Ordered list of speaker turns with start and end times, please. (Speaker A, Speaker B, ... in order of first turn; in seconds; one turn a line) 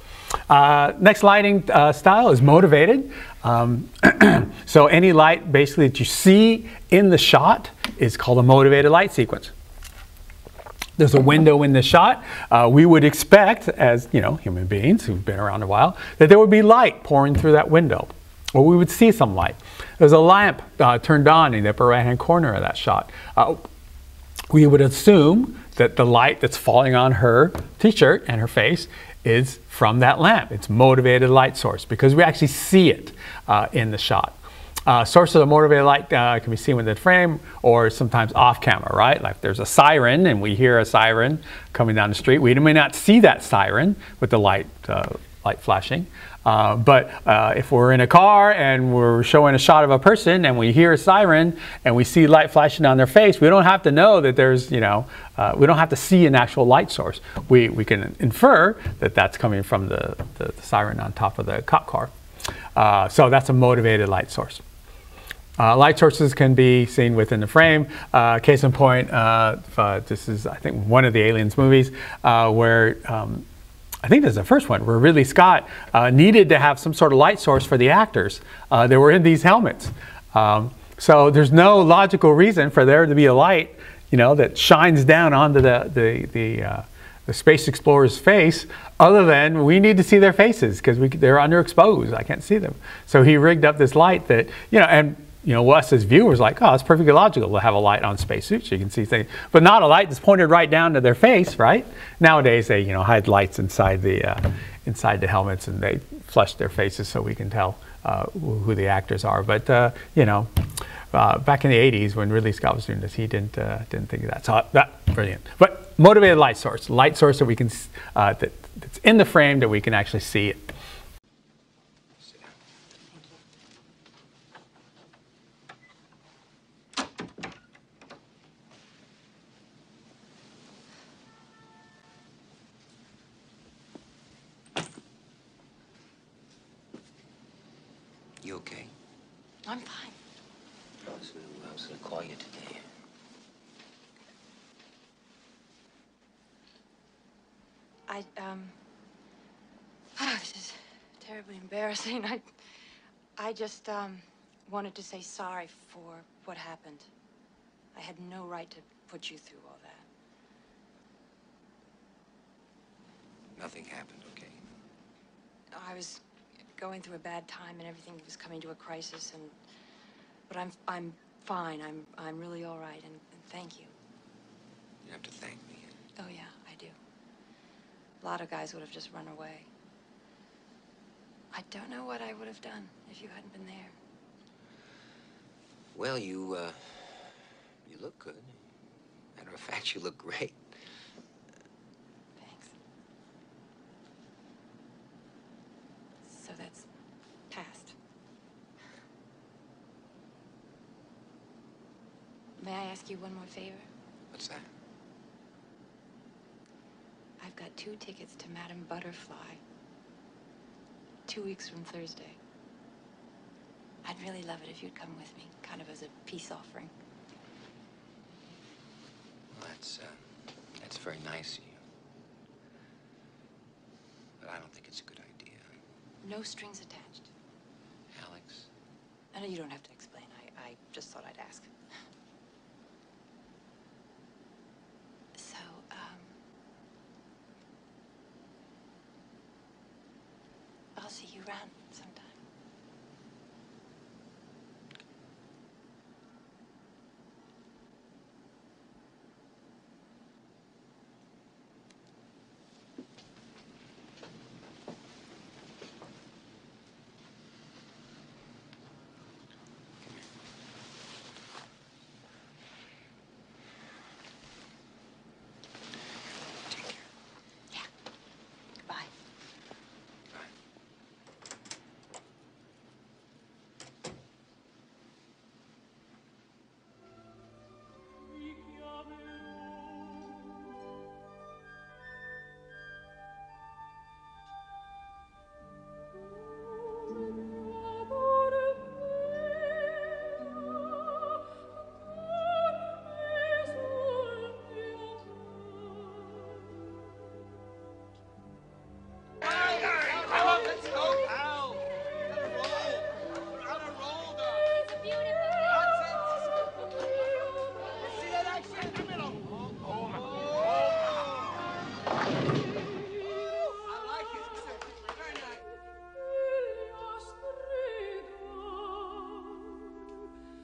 Speaker A: 0.5-9.5
Speaker A: 11.0-23.6
Speaker A: 24.5-62.1
Speaker A: 62.8-64.6
Speaker A: 65.6-73.5
Speaker A: 74.0-110.5
Speaker A: 111.1-120.7
Speaker B: 138.4-138.9
Speaker C: 139.7-140.2
Speaker B: 141.1-142.8
Speaker C: 148.1-148.8
Speaker C: 150.2-152.5
Speaker C: 153.4-157.1
Speaker C: 157.9-160.1
Speaker B: 163.6-164.6
Speaker C: 165.7-166.2
Speaker C: 166.8-169.6
Speaker C: 170.5-173.9
Speaker B: 175.0-175.9
Speaker C: 176.2-176.9
Speaker C: 178.2-179.7
Speaker C: 181.5-183.9
Speaker B: 185.9-188.6
Speaker B: 189.4-190.6
Speaker C: 192.4-192.8
Speaker C: 196.2-196.9
Speaker C: 197.5-197.9
Speaker C: 202.6-203.9
Speaker B: 204.3-204.7
Speaker C: 207.4-209.6
Speaker C: 211.3-212.4
Speaker C: 214.0-216.9
Speaker B: 219.6-220.2
Speaker B: 220.8-221.8
Speaker B: 224.4-225.8
Speaker C: 226.2-227.3
Speaker B: 228.1-228.7
Speaker C: 229.3-231.7
Speaker C: 235.3-236.3
Speaker C: 240.9-242.4
Speaker C: 268.9-269.1